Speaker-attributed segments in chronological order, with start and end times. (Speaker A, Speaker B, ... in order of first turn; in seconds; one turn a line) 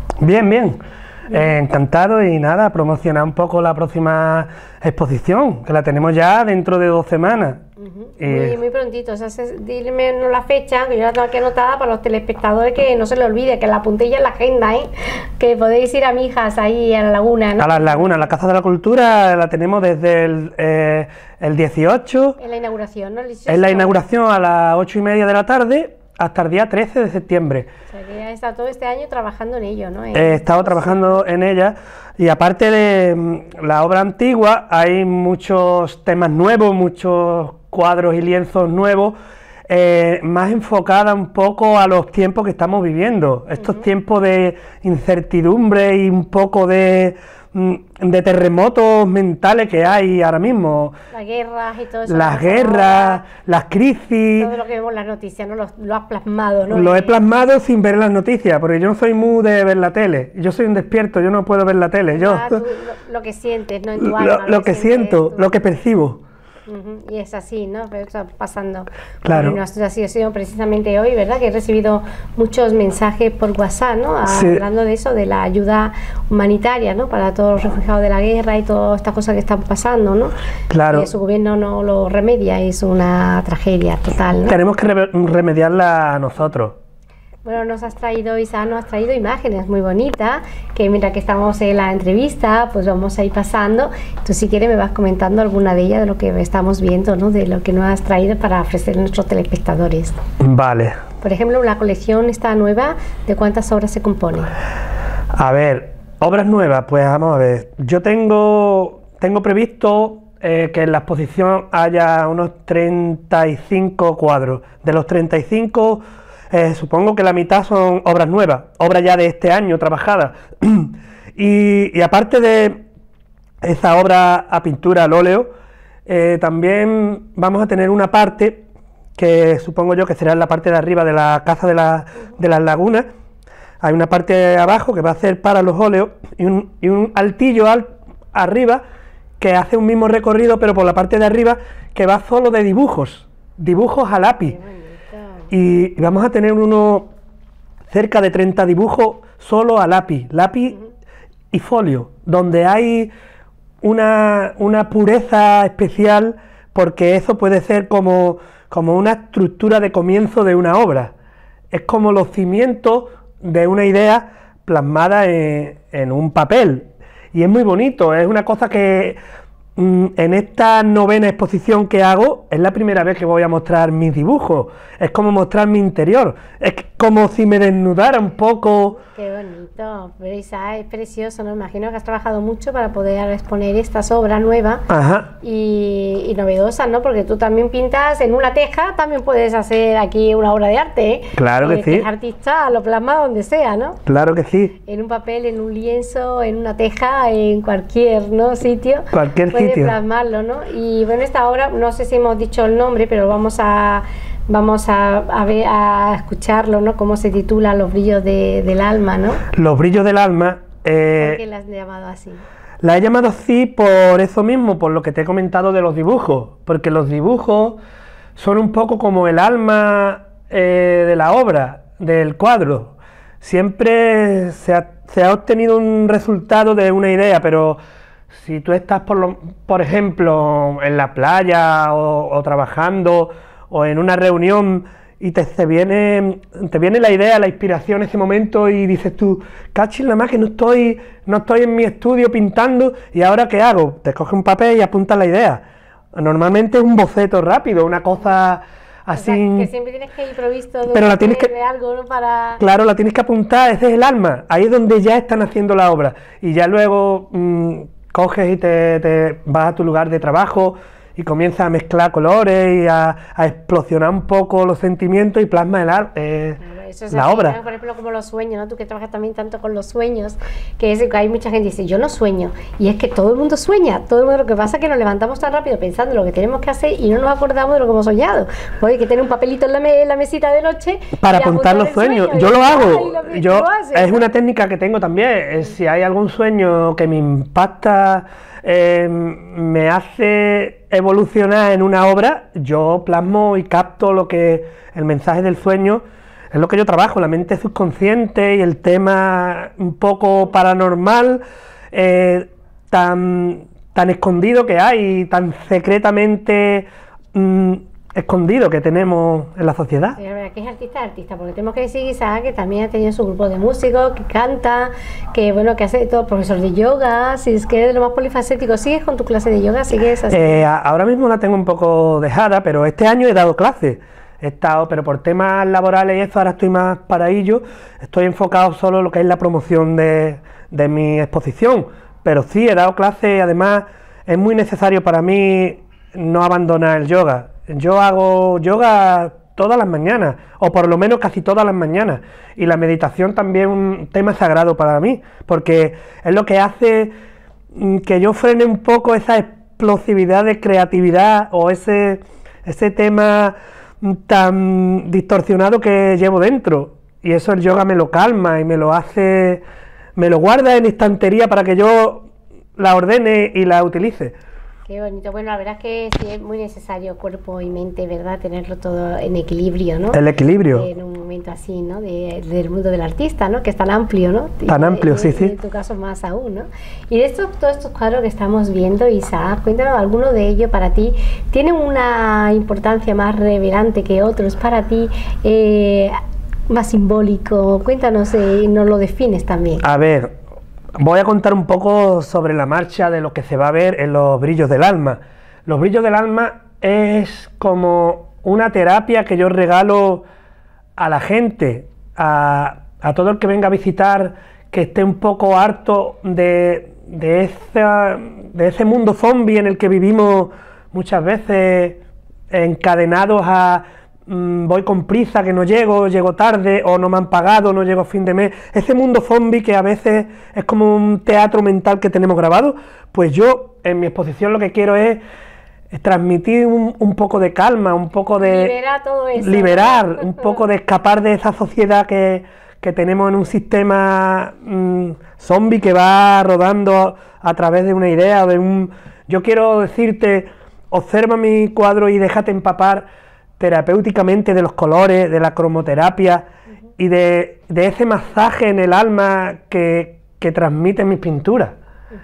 Speaker A: 0.2-0.8
Speaker A: 1.3-7.6
Speaker B: 7.8-18.3
Speaker A: 8.2-8.6
Speaker A: 17.6-22.4
Speaker B: 22.4-24.0
Speaker A: 23.5-27.7
Speaker B: 27.9-31.2
Speaker A: 30.1-39.1
Speaker A: 39.7-51.0
Speaker B: 43.6-43.9
Speaker B: 51.1-53.2
Speaker A: 52.1-54.5
Speaker B: 54.4-57.2
Speaker A: 56.7-62.6
Speaker B: 62.1-65.5
Speaker A: 64.0-66.2
Speaker B: 66.7-80.3
Speaker A: 69.2-69.6
Speaker A: 74.3-74.6
Speaker A: 80.7-81.1
Speaker B: 80.9-84.6
Speaker A: 84.5-86.8
Speaker B: 87.5-100.2
Speaker A: 100.4-101.0
Speaker B: 101.2-104.5
Speaker A: 105.3-122.8
Speaker A: 123.6-125.5
Speaker A: 126.1-128.6
Speaker A: 129.2-133.1
Speaker A: 133.8-138.8
Speaker A: 139.4-144.6
Speaker B: 144.5-145.5
Speaker A: 145.5-147.1
Speaker A: 147.9-150.8
Speaker A: 151.5-153.1
Speaker A: 153.8-161.1
Speaker A: 161.7-169.2
Speaker A: 169.8-179.0
Speaker B: 179.0-184.9
Speaker A: 184.9-185.3
Speaker B: 185.4-194.0
Speaker A: 191.4-192.1
Speaker A: 194.1-194.7
Speaker B: 194.8-209.4
Speaker A: 199.1-200.0
Speaker A: 209.5-211.4
Speaker B: 211.2-212.4
Speaker A: 212.8-217.8
Speaker A: 218.4-227.8
Speaker A: 228.3-245.6
Speaker A: 246.2-249.7
Speaker B: 249.2-252.6
Speaker A: 250.9-251.5
Speaker A: 252.6-267.6
Speaker B: 266.6-284.2
Speaker A: 281.2-301.4
Speaker A: 301.9-310.2
Speaker B: 310.2-320.6
Speaker A: 320.3-347.1
Speaker A: 347.7-359.6
Speaker A: 360.2-362.3
Speaker A: 362.8-364.4
Speaker B: 364.9-370.2
Speaker A: 370.1-370.9
Speaker B: 370.7-386.1
Speaker A: 374.7-375.6
Speaker B: 386.7-389.8
Speaker A: 389.8-390.3
Speaker A: 391.0-400.2
Speaker A: 401.0-425.2
Speaker A: 425.9-428.7
Speaker B: 428.4-430.5
Speaker A: 429.4-443.1
Speaker A: 443.6-446.4
Speaker A: 447.0-451.8